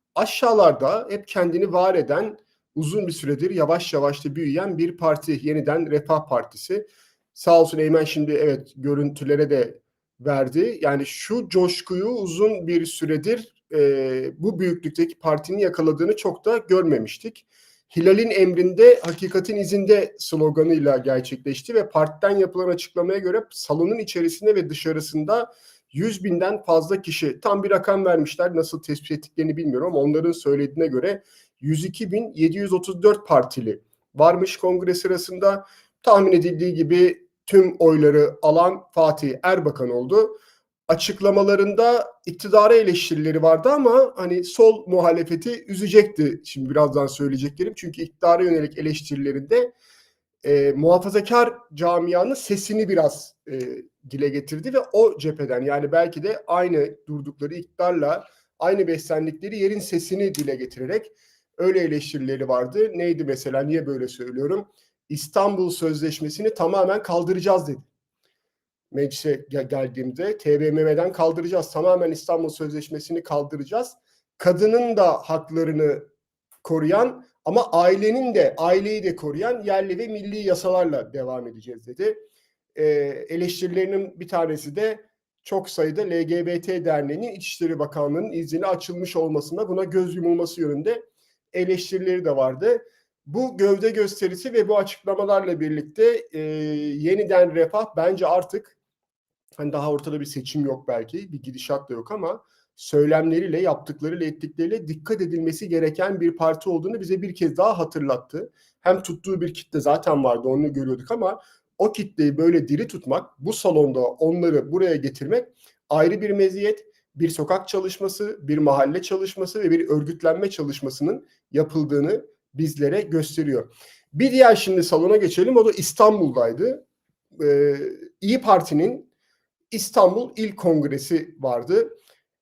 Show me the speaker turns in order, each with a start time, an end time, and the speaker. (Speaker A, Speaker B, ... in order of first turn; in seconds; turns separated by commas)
Speaker A: 0.1-40.4, Speaker A: 40.9-49.7, Speaker A: 50.4-67.8, Speaker A: 68.9-76.1, Speaker A: 76.6-82.2, Speaker A: 82.8-91.0, Speaker A: 91.5-98.8, Speaker A: 99.6-126.8, Speaker A: 127.4-129.1, Speaker A: 129.7-131.9